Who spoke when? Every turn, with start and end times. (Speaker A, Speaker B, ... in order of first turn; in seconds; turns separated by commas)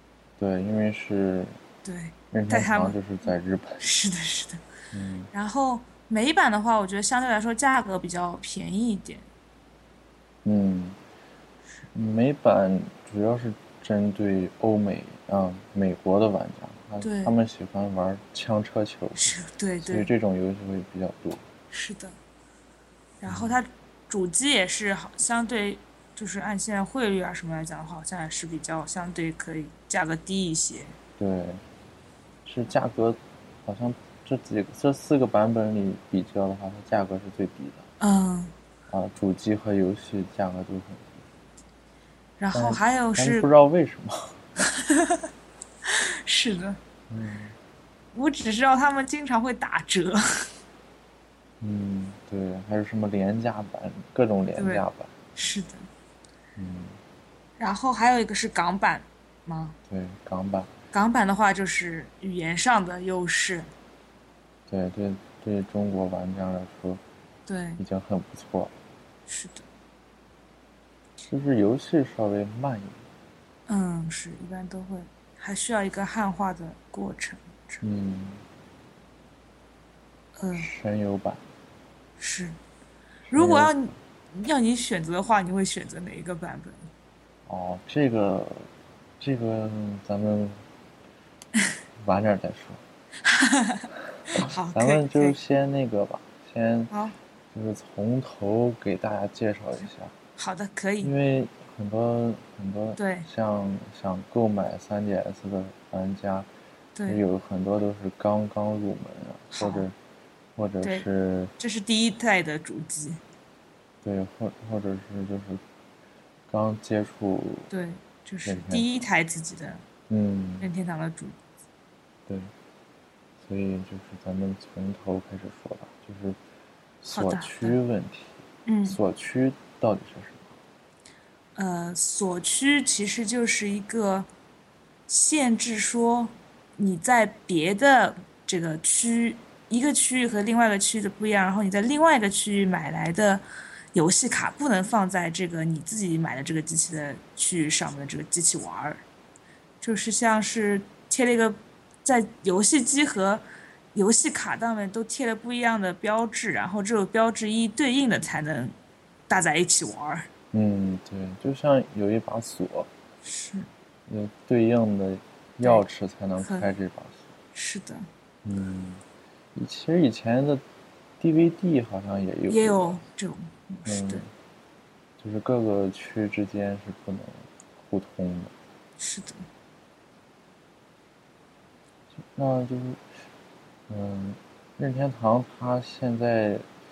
Speaker A: 0.4-1.6, Speaker B: 1.8-3.3, Speaker A: 2.3-3.8, Speaker B: 3.8-4.6, Speaker A: 4.9-5.3, Speaker B: 5.3-9.3, Speaker A: 10.4-11.0, Speaker A: 11.9-21.4, Speaker B: 17.0-17.3, Speaker B: 19.1-20.1, Speaker B: 21.7-22.2, Speaker B: 23.2-30.9, Speaker A: 23.2-23.6, Speaker A: 31.2-31.6, Speaker A: 32.4-37.8, Speaker B: 38.0-38.5, Speaker A: 38.9-41.2, Speaker B: 42.4-43.5, Speaker A: 42.5-44.4, Speaker B: 44.6-45.3, Speaker B: 45.8-46.8, Speaker A: 47.1-47.5, Speaker B: 48.1-50.5, Speaker A: 51.6-55.1, Speaker B: 54.5-55.9, Speaker A: 56.6-57.0, Speaker B: 57.6-59.8, Speaker A: 59.9-60.7, Speaker B: 60.9-63.7, Speaker A: 64.7-67.0, Speaker B: 67.5-67.8, Speaker A: 67.8-68.7, Speaker B: 69.3-69.7, Speaker A: 71.2-73.0, Speaker B: 73.7-77.8, Speaker A: 77.8-78.4, Speaker B: 80.4-80.7, Speaker A: 80.5-81.4, Speaker B: 82.2-82.6, Speaker A: 83.3-83.7, Speaker B: 83.3-86.9, Speaker A: 87.5-90.6, Speaker A: 92.0-92.8, Speaker B: 93.2-95.4, Speaker A: 94.3-96.9, Speaker B: 96.9-97.2, Speaker A: 97.5-100.1, Speaker B: 100.4-101.1, Speaker A: 101.0-106.5, Speaker B: 103.0-103.3, Speaker B: 107.0-107.2, Speaker A: 107.1-110.0, Speaker B: 109.5-109.8, Speaker A: 110.5-111.5, Speaker B: 111.6-113.2, Speaker A: 114.0-115.6, Speaker A: 116.5-117.7, Speaker B: 117.7-119.8, Speaker A: 118.4-118.8, Speaker A: 120.1-120.7, Speaker B: 120.6-121.4, Speaker A: 123.4-126.4, Speaker A: 127.0-130.5, Speaker B: 127.1-127.8, Speaker B: 128.7-129.0, Speaker B: 131.6-134.3, Speaker B: 135.1-149.0, Speaker B: 149.8-158.7, Speaker B: 159.3-160.3, Speaker A: 160.5-162.9, Speaker B: 163.2-163.7, Speaker A: 164.1-167.3, Speaker B: 166.4-166.7, Speaker B: 167.5-168.1, Speaker A: 168.4-169.0, Speaker A: 169.5-170.6, Speaker A: 171.2-173.0, Speaker B: 172.5-174.2, Speaker A: 173.8-174.3, Speaker A: 175.2-178.5, Speaker B: 179.0-179.4, Speaker A: 182.2-183.0, Speaker A: 183.9-186.7